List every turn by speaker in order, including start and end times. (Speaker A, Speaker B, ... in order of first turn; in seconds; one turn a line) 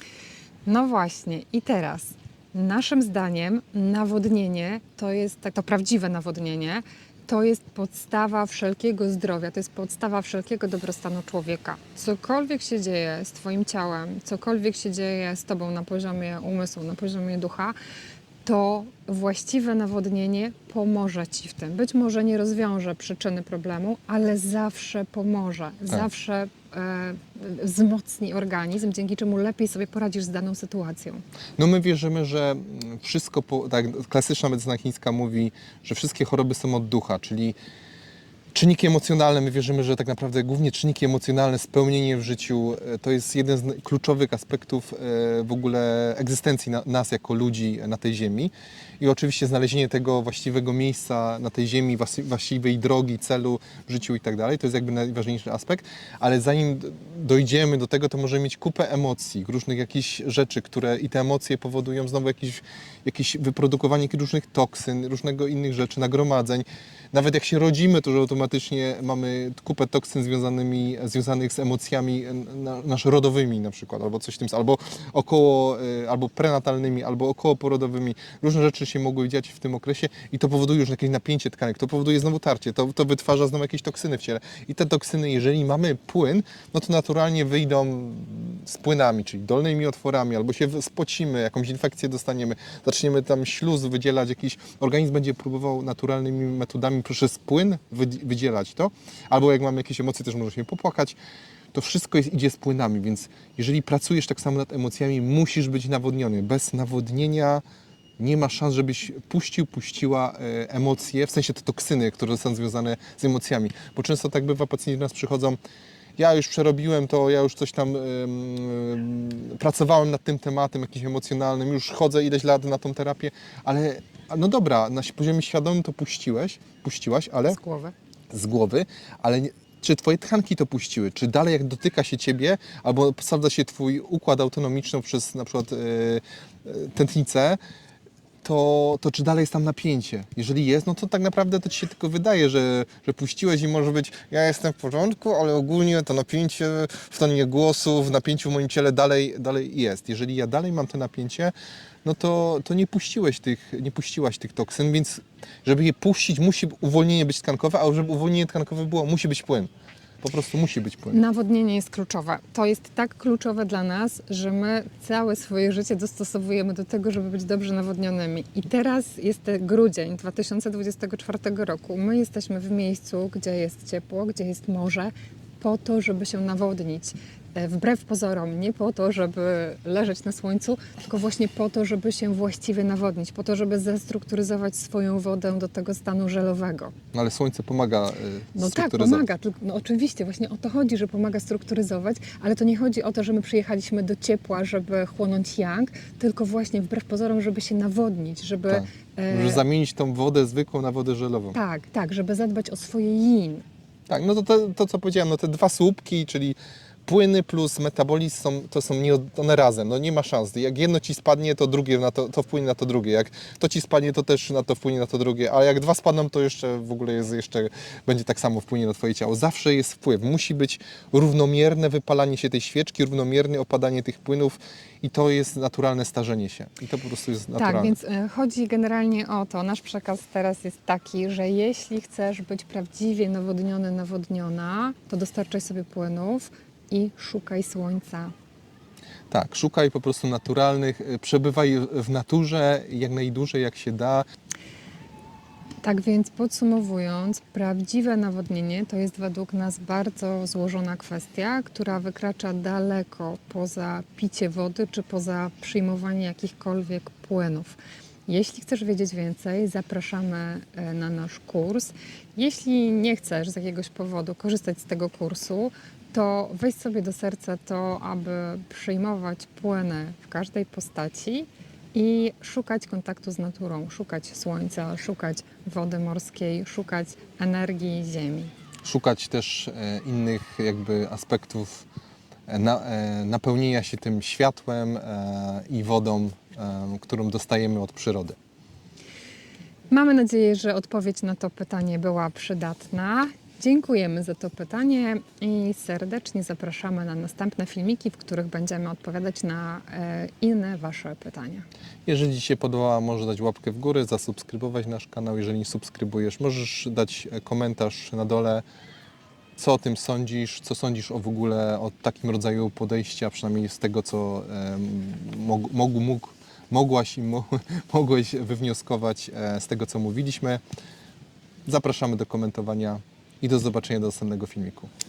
Speaker A: 0.7-17.8
Speaker A: 18.4-31.2
Speaker B: 31.6-37.6
Speaker B: 38.5-101.2
Speaker B: 101.7-107.6
Speaker B: 108.2-115.6
Speaker B: 116.2-127.6
Speaker A: 127.5-127.9
Speaker B: 128.3-137.6
Speaker B: 138.4-159.7
Speaker B: 160.2-161.2
Speaker A: 161.1-186.9
Speaker B: 187.1-189.3
Speaker A: 188.6-199.6
Speaker B: 198.7-201.6
Speaker A: 201.5-203.6
Speaker B: 204.1-228.0
Speaker A: 227.6-238.3
Speaker B: 239.3-244.2
Speaker A: 245.8-278.5
Speaker B: 278.8-281.9
Speaker B: 282.5-288.4
Speaker A: 289.9-301.6
Speaker B: 302.1-308.6
Speaker B: 309.6-320.6
Speaker B: 321.6-324.9